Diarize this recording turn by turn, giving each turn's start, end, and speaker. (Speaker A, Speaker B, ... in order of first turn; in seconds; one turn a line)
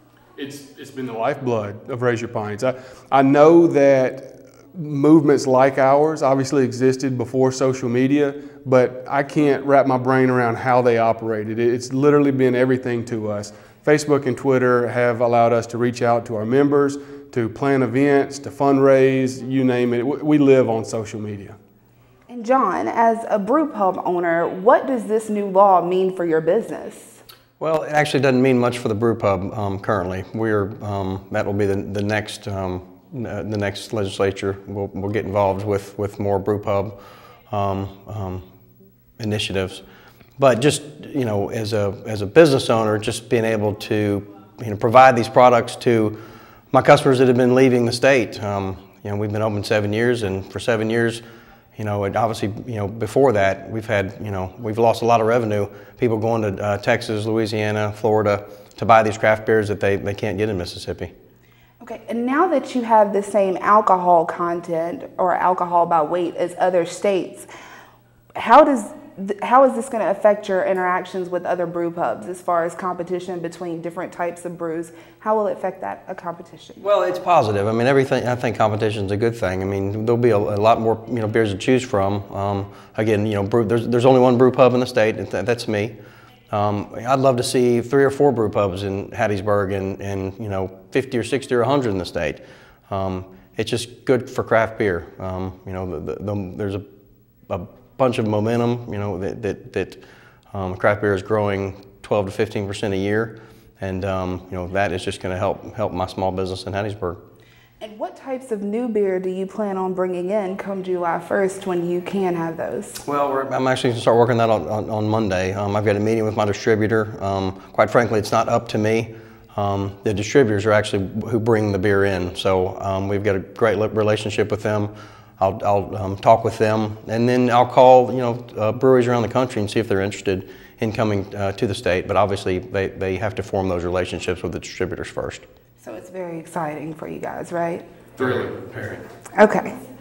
Speaker A: 0.4-21.6
Speaker B: 22.3-27.2
Speaker C: 27.6-37.0
Speaker C: 37.5-38.4
Speaker C: 39.2-39.8
Speaker C: 40.4-46.2
Speaker C: 46.7-51.2
Speaker C: 51.8-61.1
Speaker B: 61.8-67.5
Speaker B: 68.3-76.8
Speaker C: 76.8-86.0
Speaker C: 86.5-96.8
Speaker C: 97.5-107.2
Speaker B: 107.8-113.0
Speaker C: 113.0-135.4
Speaker B: 135.8-137.8
Speaker C: 138.2-139.0
Speaker B: 139.3-139.7